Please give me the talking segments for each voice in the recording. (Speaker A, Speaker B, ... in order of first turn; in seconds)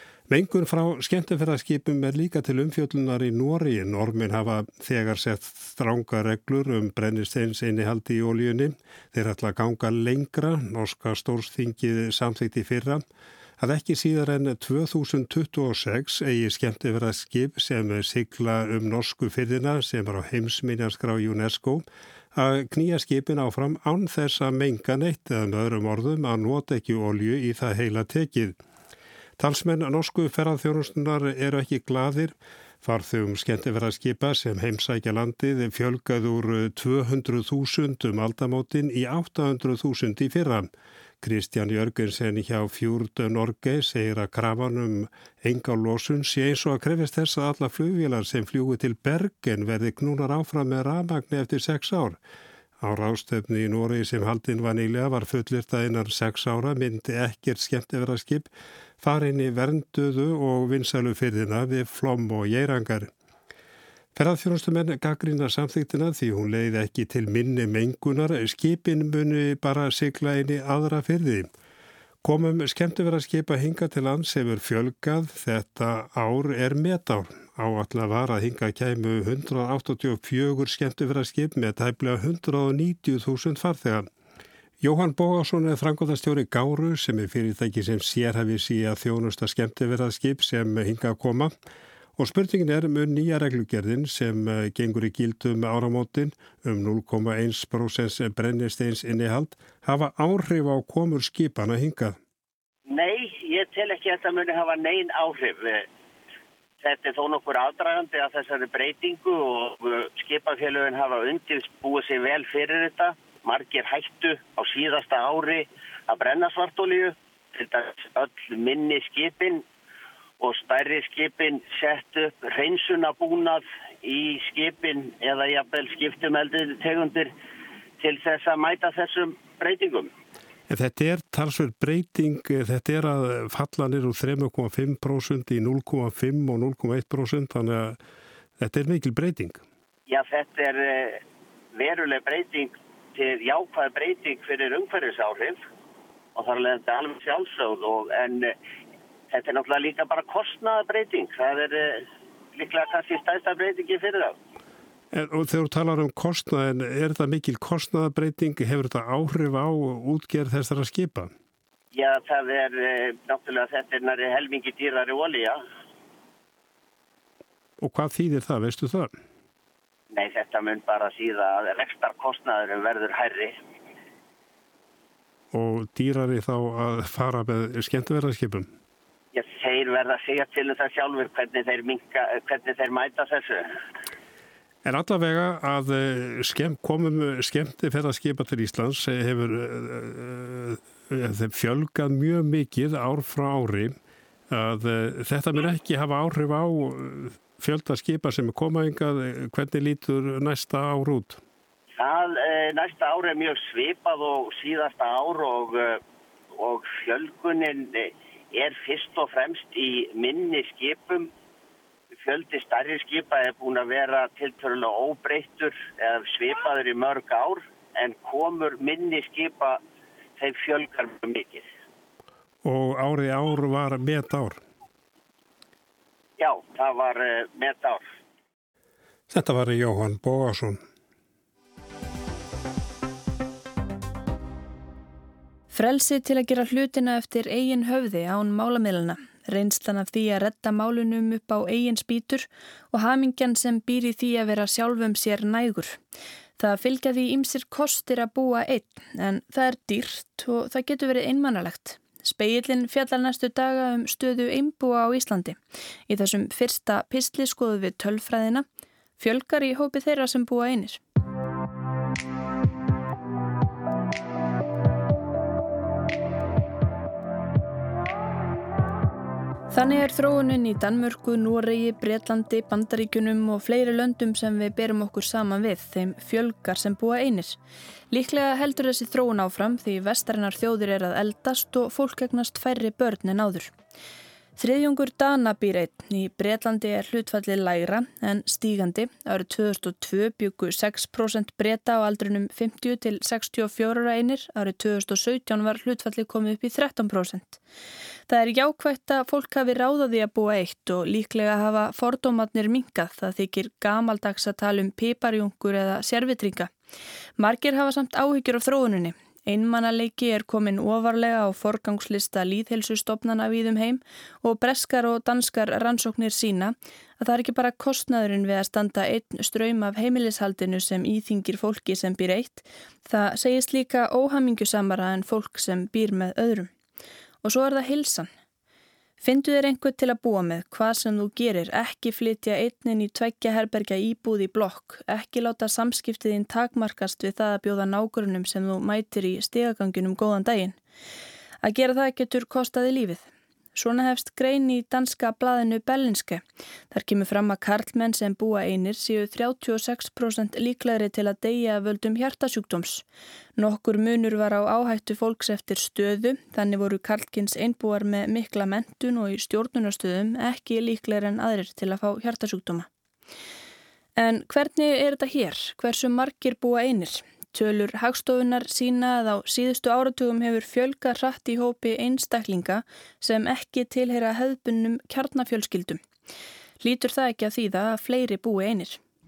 Speaker A: 0.3-13.0, 13.6-28.6, 29.4-40.7, 41.2-52.2, 52.8-58.5, 59.0-63.1, 64.1-71.5, 72.2-84.1, 84.8-91.5, 92.2-102.2, 130.7-138.0, 138.6-139.6, 155.1-161.3, 167.8-169.1, 175.5-178.7, 184.8-193.9, 194.5-201.4, 222.6-224.6, 229.3-230.8
Speaker B: 102.9-105.8, 106.8-119.6, 120.4-127.3, 128.0-130.1, 140.1-141.2, 141.7-145.6, 146.3-148.5, 149.3-152.0, 152.5-154.3, 161.9-165.6, 170.1-173.5, 179.3-183.7, 202.0-206.0, 206.6-211.3, 212.1-219.8, 220.4-221.7, 226.4-228.0
Speaker C: 235.7-246.0, 246.6-258.6, 259.2-261.0, 269.7-277.6, 278.1-283.7, 284.6-297.6, 298.3-306.7, 307.4-326.7, 327.4-328.3, 329.2-340.8, 341.6-353.0, 353.6-362.9, 364.2-376.0, 376.8-379.0